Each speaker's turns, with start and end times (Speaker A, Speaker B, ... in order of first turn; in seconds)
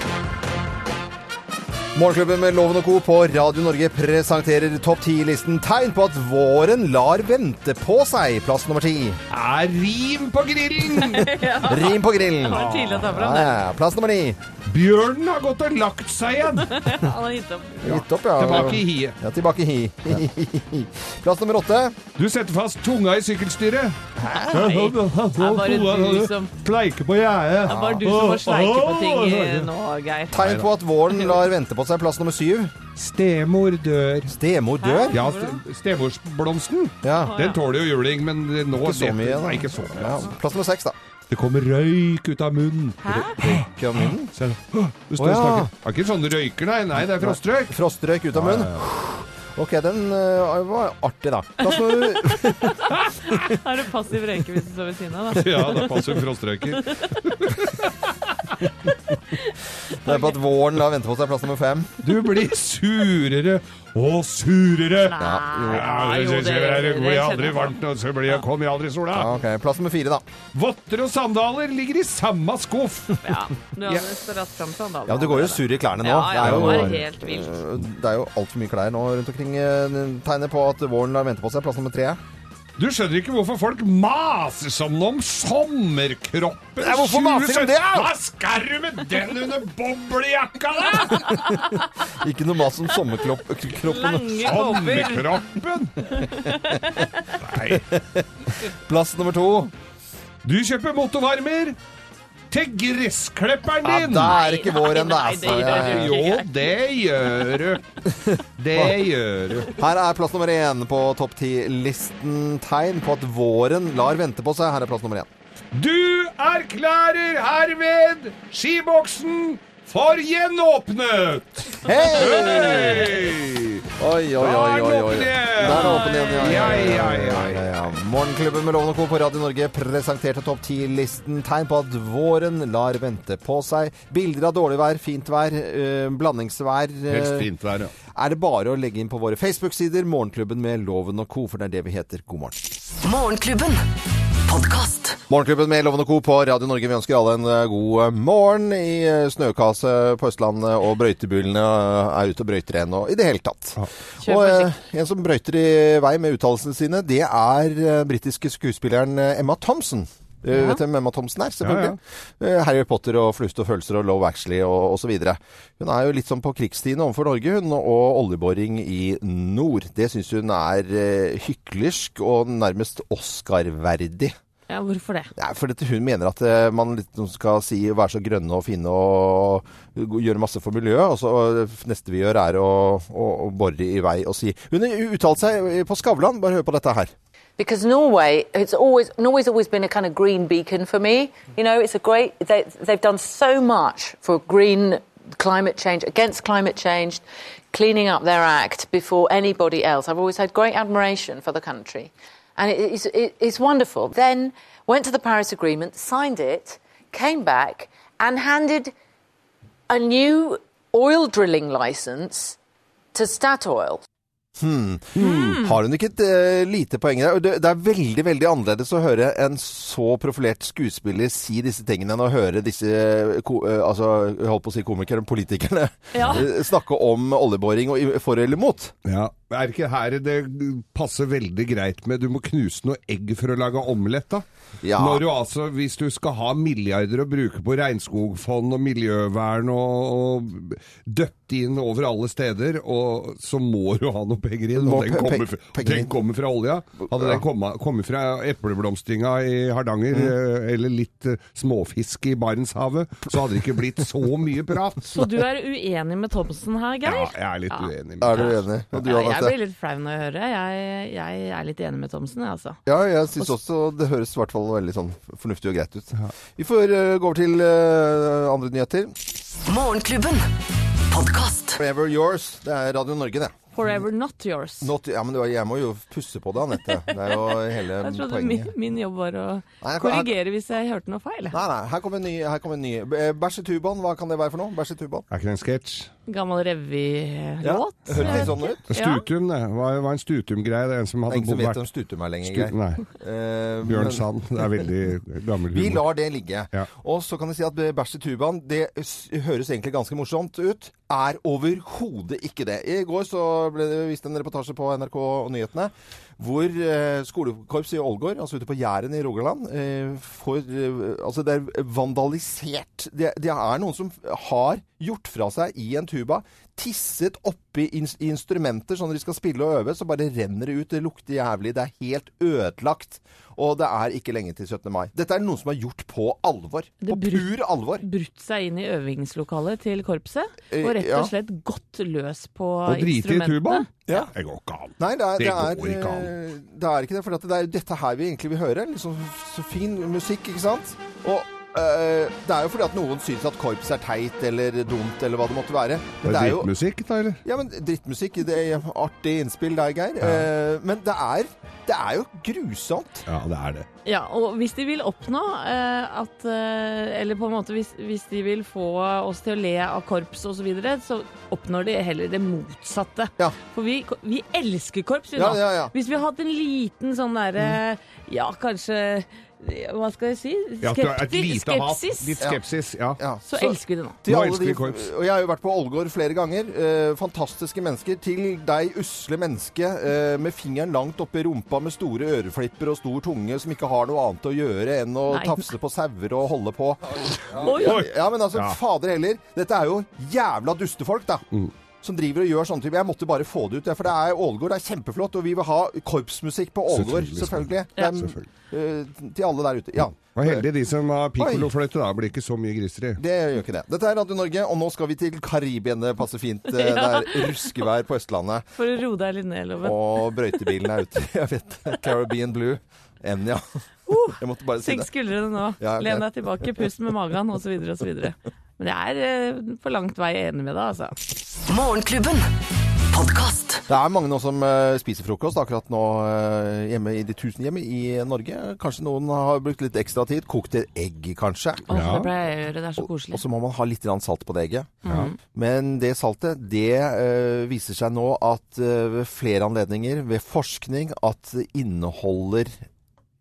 Speaker A: 1.9-9.2, 11.5-14.4, 17.8-22.0, 24.2-24.7, 27.7-28.0, 30.3-32.7, 34.3-35.2, 37.0-37.3, 38.7-41.0, 43.4-44.3, 45.2-45.7, 47.1-52.9, 59.9-62.0, 65.2-65.9, 69.1-70.2, 75.1-82.2, 86.8-88.1, 91.3-95.1, 97.7-99.7, 103.8-106.2, 109.7-115.3, 121.8-123.1, 124.0-137.5, 138.1-142.6, 145.3-174.3, 175.3-187.1, 214.6-228.9, 234.8-235.2, 244.7-246.1, 247.1-247.4, 258.2-259.5, 262.9-269.1, 271.8-273.9, 274.8-278.7, 279.8-280.3, 281.5-285.3, 287.6-288.8, 291.3-294.9, 295.7-328.0, 330.7-331.3, 335.0-346.7, 347.4-353.2, 365.4-365.9, 373.2-391.4, 392.0-400.6, 401.4-401.7, 403.2-408.7, 409.8-413.8, 414.3-415.1, 415.8-416.2, 423.9-431.9, 433.0-442.8
Speaker B: 9.3-11.4, 12.5-13.1, 14.7-16.8, 17.8-19.2, 22.1-24.0, 24.5-29.7, 30.3-30.7, 33.0-34.4, 35.1-40.3, 41.3-47.8, 48.3-48.8, 55.3-58.1, 62.0-69.3, 70.5-73.2, 76.4-77.0, 82.8-91.4, 94.4-96.1, 97.4-97.9, 100.4-101.8, 102.5-104.4, 105.5-107.8, 108.6-109.8, 115.7-123.9, 124.4-127.7, 137.1-137.9, 161.6-161.9, 215.2-215.6, 229.0-234.4, 235.0-255.1, 257.1-258.6, 285.3-286.1, 288.1-291.8, 292.4-293.0, 293.8-296.1, 332.9-336.3, 346.2-347.4, 350.2-350.5, 353.3-353.9, 370.8-373.2, 374.3-375.1, 387.6-388.8, 396.9-398.4, 400.1-403.2, 431.9-432.3
Speaker C: 10.9-13.6, 16.6-18.0, 24.3-26.5, 27.7-30.3, 34.8-35.6, 37.2-37.6, 43.0-43.4, 51.7-56.1, 56.9-57.4, 59.3-60.3, 65.0-67.8, 73.2-77.6, 93.8-95.4, 96.1-97.3, 104.2-106.7, 125.6-126.8, 154.2-154.7, 160.5-160.8, 174.7-175.3, 215.2-215.7, 226.1-226.4, 255.1-262.8, 273.7-274.9, 278.0-281.6, 286.3-289.2, 327.0-333.9, 354.0-372.4, 373.4-374.2, 385.3-385.7, 387.6-388.0, 406.7-407.7, 408.7-410.6, 414.1-421.1, 431.9-433.4, 435.0-435.4
Speaker D: 143.0-143.8, 144.4-145.2, 269.6-270.5, 271.1-271.8, 421.7-422.5, 423.1-423.8
Speaker E: 187.6-208.9, 209.9-212.6, 213.1-214.0